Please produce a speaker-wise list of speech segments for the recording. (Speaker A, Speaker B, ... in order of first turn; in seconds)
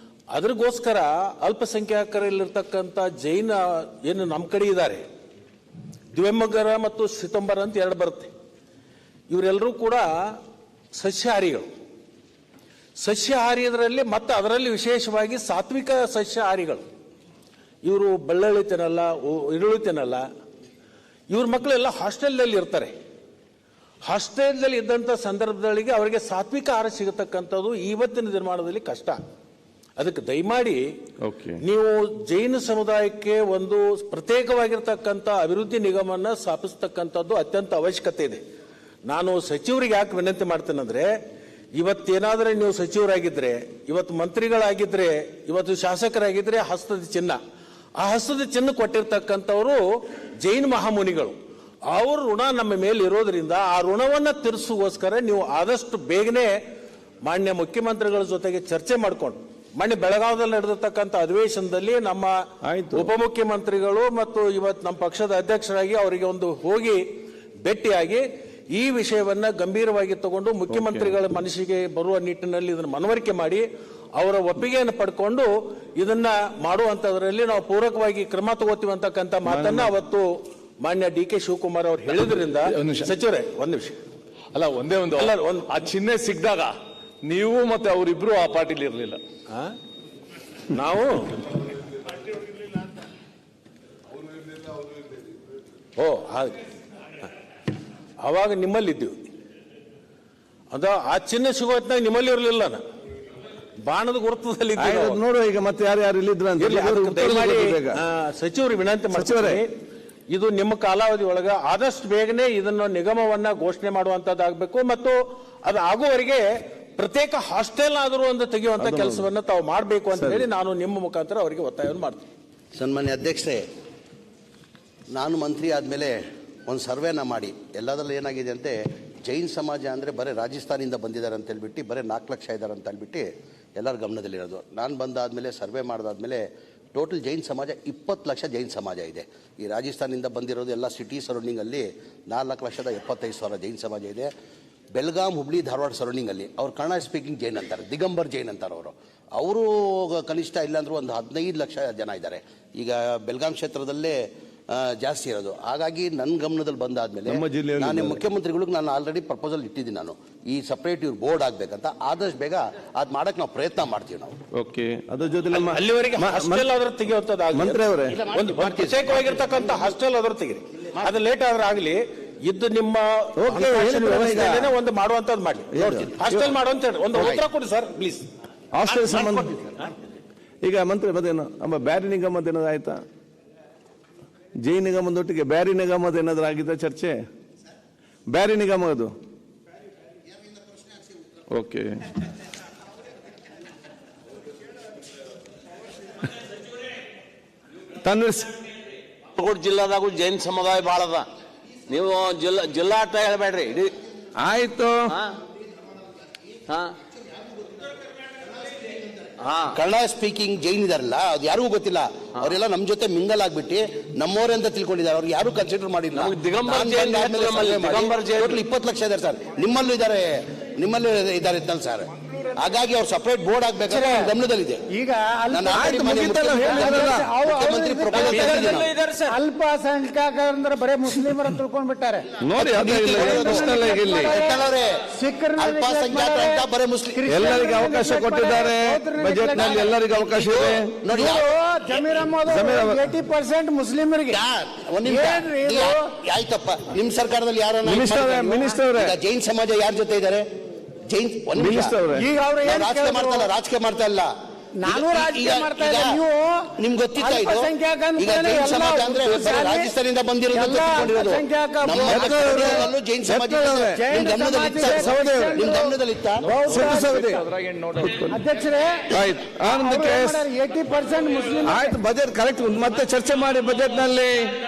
Speaker A: 0.3-5.0, 6.1-8.3, 9.3-10.4, 10.9-11.7, 13.0-16.8, 17.8-20.2, 21.3-22.9, 24.0-29.2, 30.0-30.9, 31.6-38.4, 39.0-41.1, 41.7-47.4, 48.0-56.6, 57.2-67.0, 67.6-80.3, 80.8-84.0, 85.1-85.7, 90.7-91.4, 96.0-96.6, 98.2-99.3, 100.7-102.8, 103.8-105.2, 106.6-109.7, 110.3-122.3, 165.5-178.2, 178.9-179.8
Speaker B: 31.2-31.6, 62.6-63.1, 70.7-71.1, 79.4-79.8, 104.8-108.0, 109.1-109.6, 118.8-119.2, 120.1-120.4, 157.3-158.2, 164.5-166.7, 167.5-168.2, 173.4-174.7, 175.7-176.5, 178.7-179.7, 180.6-183.0, 184.6-187.2, 188.3-189.1, 191.5-192.0, 198.0-198.5, 204.4-205.1, 225.7-227.3, 232.4-234.3, 237.3-241.1, 242.5-243.0, 247.8-249.1, 251.6-252.3, 262.1-264.1, 264.9-265.6, 266.7-268.4, 269.1-270.4, 271.6-274.5
Speaker C: 82.7-83.1, 84.5-89.2
Speaker D: 122.8-123.6, 125.1-144.3, 144.9-164.3, 168.1-169.4, 209.7-224.8, 225.5-228.9, 232.6-235.1, 235.6-237.4, 239.5-241.5, 244.3-252.0, 252.6-254.3, 254.8-256.2, 256.7-266.4
Speaker E: 199.3-201.3, 201.9-203.9, 205.1-205.3, 206.7-206.9, 209.4-209.8, 216.1-218.6, 228.1-229.3
Speaker F: 223.9-224.3, 224.9-228.7, 229.2-232.3, 233.0-240.0, 241.1-244.4, 245.1-246.1, 252.1-253.5, 254.7-259.9, 260.5-262.9, 263.8-267.2, 268.2-272.0